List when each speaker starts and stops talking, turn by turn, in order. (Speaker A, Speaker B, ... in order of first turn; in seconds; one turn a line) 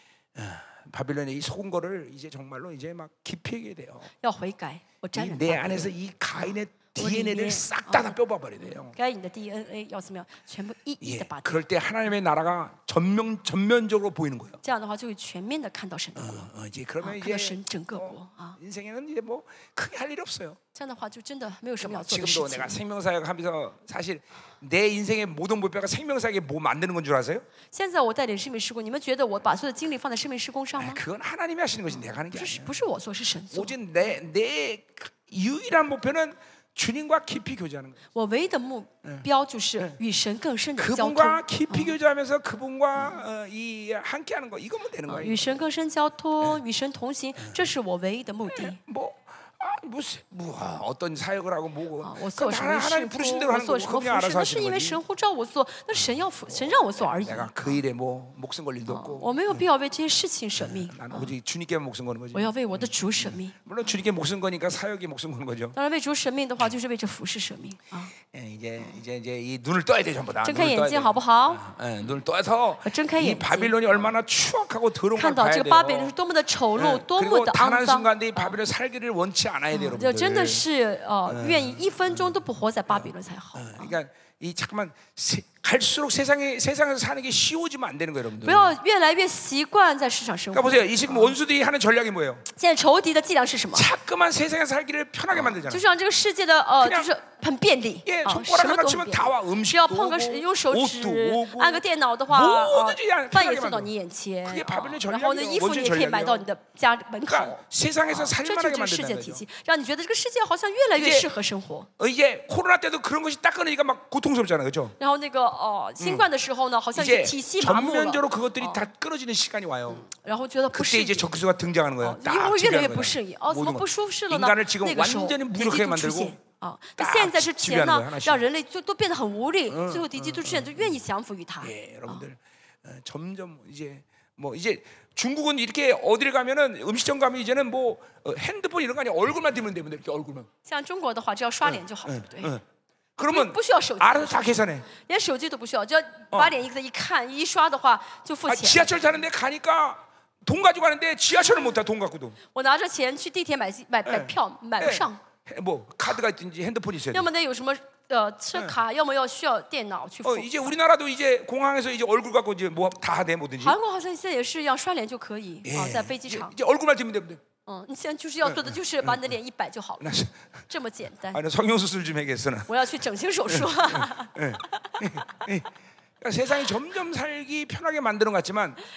Speaker A: 0.3-4.1
Speaker B: 4.2-6.0
Speaker A: 5.2-9.0
Speaker B: 7.0-8.2
Speaker B: 8.9-11.6
Speaker A: 11.0-14.6
Speaker B: 14.6-16.5
Speaker A: 16.2-20.6
Speaker B: 17.0-18.6
Speaker B: 20.7-22.8
Speaker A: 21.8-27.5
Speaker B: 27.7-31.0
Speaker A: 30.8-32.7
Speaker B: 32.3-33.8
Speaker A: 33.5-38.0
Speaker B: 38.1-42.0
Speaker A: 40.8-45.5
Speaker B: 45.1-48.8
Speaker A: 48.5-55.0
Speaker B: 52.0-57.8
Speaker A: 56.6-59.6
Speaker B: 58.9-61.3
Speaker A: 60.6-65.8
Speaker B: 62.3-63.5
Speaker B: 65.8-68.1
Speaker A: 68.3-76.1
Speaker B: 70.4-71.6
Speaker B: 72.8-74.1
Speaker B: 75.1-78.6
Speaker A: 76.8-80.7
Speaker B: 79.7-83.9
Speaker A: 81.3-82.3
Speaker A: 82.9-88.7
Speaker B: 88.4-91.4
Speaker A: 90.5-92.5
Speaker B: 92.6-93.9
Speaker A: 93.7-95.8
Speaker B: 95.3-111.9
Speaker A: 96.8-97.1
Speaker A: 98.0-103.9
Speaker A: 104.5-106.5
Speaker A: 107.3-109.4
Speaker A: 111.0-111.3
Speaker A: 112.0-115.0
Speaker B: 115.0-118.9
Speaker A: 116.0-116.3
Speaker A: 117.0-120.1
Speaker B: 119.9-121.4
Speaker A: 120.7-126.4
Speaker B: 122.0-132.2
Speaker A: 127.0-128.4
Speaker A: 129.7-131.0
Speaker A: 131.6-140.5
Speaker B: 140.7-142.6
Speaker A: 141.7-142.6
Speaker A: 143.2-144.9
Speaker B: 143.3-148.9
Speaker A: 148.5-152.4
Speaker B: 152.5-155.2
Speaker A: 154.1-157.3
Speaker B: 157.1-160.7
Speaker A: 160.2-163.8
Speaker B: 163.6-166.6
Speaker A: 165.7-167.4
Speaker B: 167.7-170.1
Speaker A: 168.4-169.3
Speaker A: 170.0-170.4
Speaker B: 170.7-171.4
Speaker A: 171.3-172.7
Speaker B: 172.7-175.1
Speaker A: 173.5-178.8